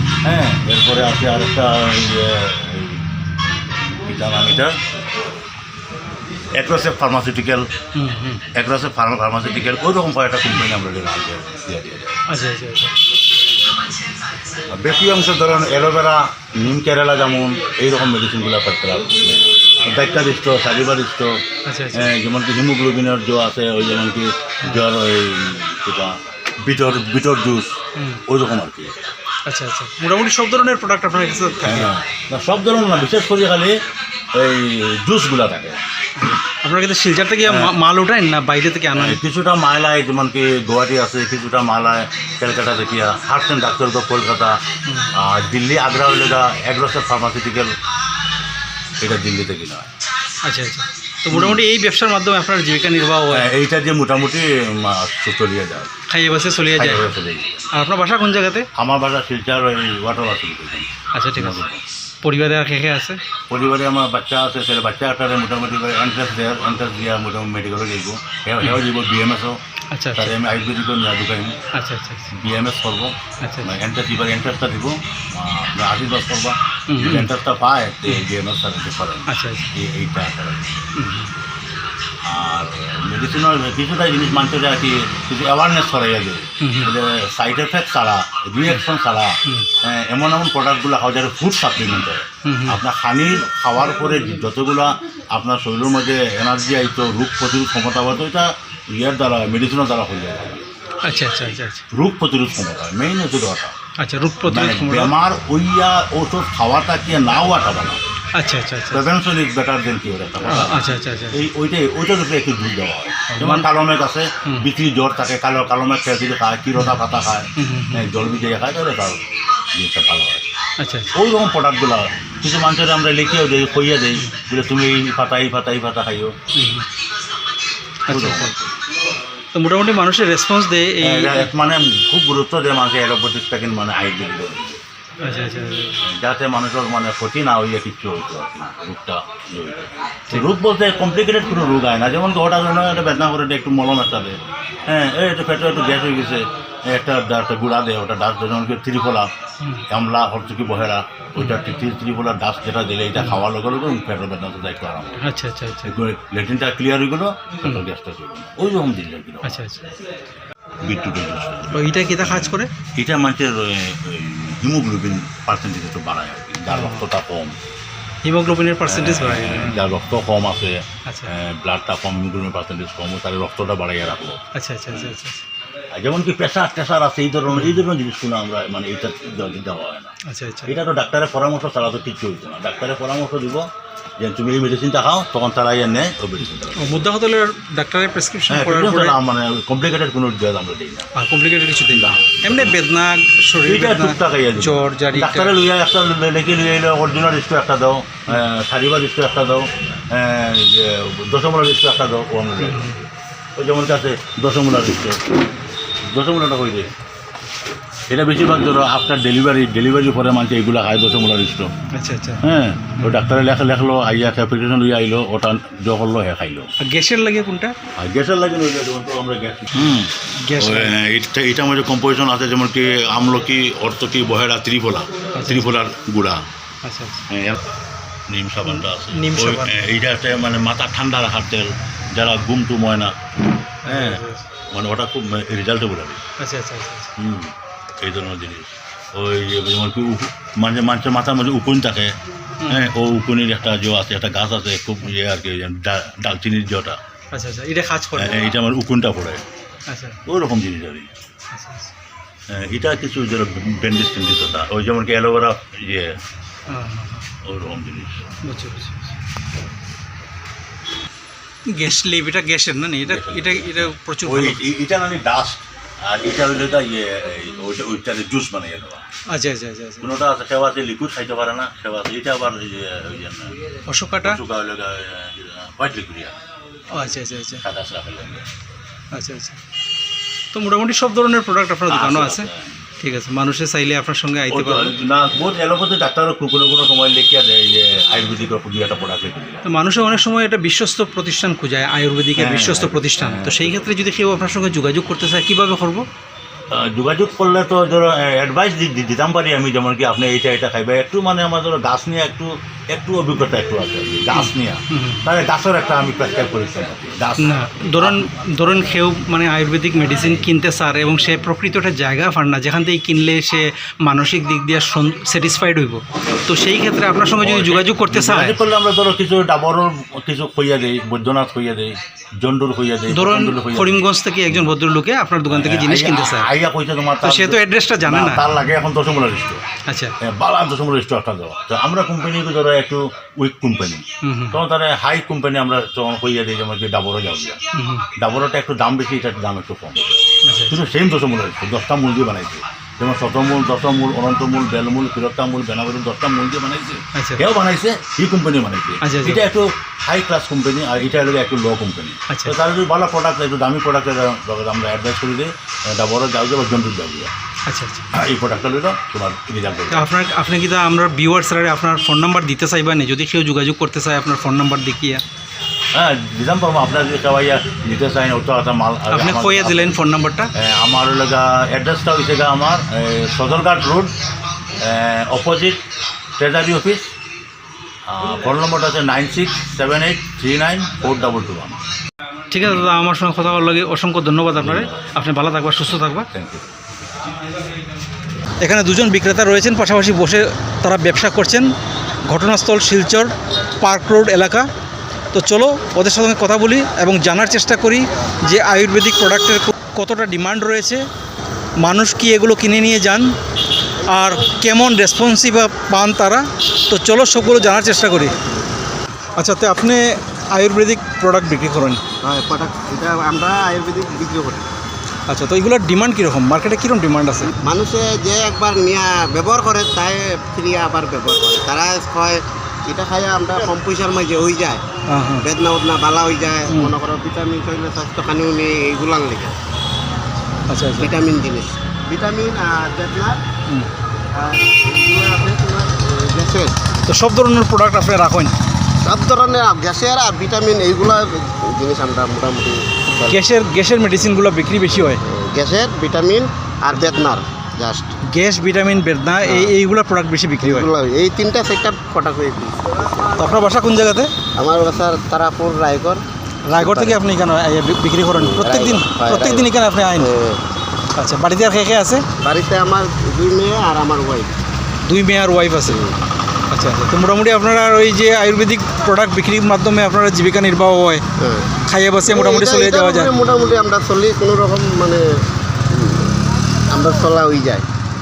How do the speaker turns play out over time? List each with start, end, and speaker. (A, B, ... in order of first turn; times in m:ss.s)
0:00.2-0:03.0 A
0:03.9-0:04.8 A
0:06.6-0:07.6 A
0:08.0-0:08.4 B
0:08.5-0:12.2 A
0:12.3-0:12.9 B
0:14.7-0:21.4 A
0:21.6-0:22.1 B
0:21.9-0:27.7 A
0:28.3-0:28.9 A
0:29.5-0:31.9 B
0:31.6-0:33.8 A
0:34.3-0:35.8 A
0:36.2-0:39.2 B
0:37.4-0:37.7 A
0:38.9-0:44.6 A
0:45.2-0:47.7 A
0:49.0-0:49.9 A
0:50.4-0:53.5 B
0:51.3-0:51.6 A
0:53.3-0:55.9 A
0:56.1-0:57.0 B
0:56.7-0:57.6 A
0:57.7-0:58.7 B
0:58.8-1:01.8 A
1:01.1-1:01.6 B
1:02.2-1:03.2 B
1:03.5-1:09.6 A
1:09.9-1:10.3 B
1:10.2-1:11.5 A
1:11.7-1:12.3 B
1:12.3-1:20.7 A
1:13.4-1:13.7 B
1:16.9-1:17.3 B
1:19.3-1:19.7 B
1:21.0-1:21.3 B
1:22.2-1:40.6 A
1:26.6-1:26.9 B
1:32.4-1:32.8 B
1:41.0-1:41.8 B
1:41.9-1:43.7 A
1:44.0-1:45.1 B
1:44.5-1:48.0 A
1:48.3-1:49.0 B
1:48.9-1:59.2 A
1:50.4-1:51.4 B
1:53.3-1:53.7 B
1:57.6-1:58.1 B
1:59.7-2:00.5 A
2:00.8-2:01.1 B
2:01.1-2:06.3 A
2:06.5-2:06.8 B
2:08.1-2:08.5 B
2:08.1-2:08.8 A
2:09.5-2:11.5 B
2:11.0-2:14.8 A
2:15.2-2:16.0 B
2:16.0-2:29.3 A
2:29.9-2:35.2 A
2:35.2-2:36.0 B
2:35.8-2:39.6 A
2:39.4-2:39.9 B
2:40.8-2:47.5 A
2:41.7-2:42.7 B
2:46.7-2:47.0 B
2:48.2-2:49.8 B
2:48.9-2:54.4 A
2:54.5-2:55.4 B
2:54.9-2:55.1 A
2:55.9-3:00.1 A
2:57.5-2:57.8 B
3:00.2-3:00.8 B
3:00.6-3:03.7 A
3:04.2-3:07.0 A
3:06.8-3:09.2 B
3:08.5-3:11.1 A
3:11.1-3:15.5 B
3:11.9-3:12.8 A
3:13.6-3:25.2 A
3:22.6-3:22.9 B
3:26.1-3:26.9 A
3:28.1-3:31.7 A
3:31.9-3:32.4 B
3:32.4-3:36.7 A
3:36.8-3:37.7 B
3:38.0-3:46.4 A
3:40.4-3:40.9 B
3:45.4-3:45.7 B
3:46.8-3:47.2 B
3:47.3-3:47.6 A
3:48.3-3:53.1 A
3:48.7-3:49.7 B
3:53.8-3:56.2 A
3:53.9-3:54.4 B
3:56.4-3:57.1 B
3:57.2-4:02.1 A
4:02.6-4:02.9 B
4:02.7-4:07.0 A
4:07.3-4:08.4 B
4:08.1-4:09.4 A
4:09.9-4:10.2 B
4:10.2-4:11.1 A
4:11.5-4:11.9 B
4:12.5-4:16.2 A
4:16.7-4:17.3 B
4:17.4-4:18.3 A
4:18.4-4:19.0 B
4:21.7-4:24.6 B
4:23.0-4:29.0 A
4:29.3-4:30.0 B
4:30.0-4:33.6 A
4:33.9-4:34.4 B
4:34.2-4:36.3 A
4:36.9-4:37.6 B
4:37.6-4:38.4 A
4:39.1-4:39.6 B
4:40.5-4:42.5 B
4:41.9-4:42.8 A
4:43.0-4:44.9 B
4:44.5-4:49.6 A
4:49.6-4:56.0 B
4:52.4-4:53.9 A
4:56.7-5:08.2 A
5:04.3-5:05.2 B
5:07.4-5:18.6 B
5:17.4-5:24.7 A
5:23.1-5:26.5 B
5:25.5-5:29.6 A
5:27.2-5:28.4 B
5:29.9-5:30.1 B
5:30.2-5:37.6 A
5:34.2-5:34.6 B
5:37.7-5:38.1 B
5:38.2-5:40.2 A
5:40.4-5:40.8 B
5:40.7-5:57.3 A
5:47.1-5:47.4 B
5:49.0-5:49.4 B
5:52.3-5:52.5 B
5:57.7-5:58.0 B
5:58.1-6:00.1 A
5:59.9-6:05.2 B
6:05.9-6:10.0 A
6:09.1-6:10.5 B
6:10.5-6:14.1 A
6:14.8-6:15.8 A
6:16.4-6:17.1 A
6:18.1-6:21.8 A
6:22.5-6:26.3 B
6:24.6-6:25.0 A
6:26.3-6:26.7 A
6:28.6-6:31.7 B
6:32.3-6:34.7 B
6:35.3-6:41.0 B
6:41.8-6:43.3 B
6:44.0-6:48.3 B
6:49.4-6:52.0 B
6:52.2-6:54.7 C
6:55.3-6:57.5 B
6:57.6-7:04.8 C
7:05.1-7:05.4 B
7:05.4-7:09.6 C
7:10.7-7:11.1 B
7:11.0-7:13.4 C
7:14.3-7:16.8 C
7:17.1-7:18.5 B
7:19.0-7:23.4 C
7:23.2-7:25.2 B
7:25.2-7:28.1 C
7:28.3-7:30.9 B
7:29.4-7:29.8 C
7:30.6-7:33.5 C
7:33.4-7:34.3 B
7:34.6-7:37.2 C
7:36.7-7:40.3 B
7:38.3-7:40.6 C
7:41.2-7:42.2 B
7:42.4-7:44.5 C
7:45.0-7:46.0 B
7:45.8-7:46.2 C
7:46.7-7:51.2 B
7:51.4-7:51.7 C
7:51.9-7:53.3 B
7:52.3-7:55.3 C
7:55.9-7:57.8 C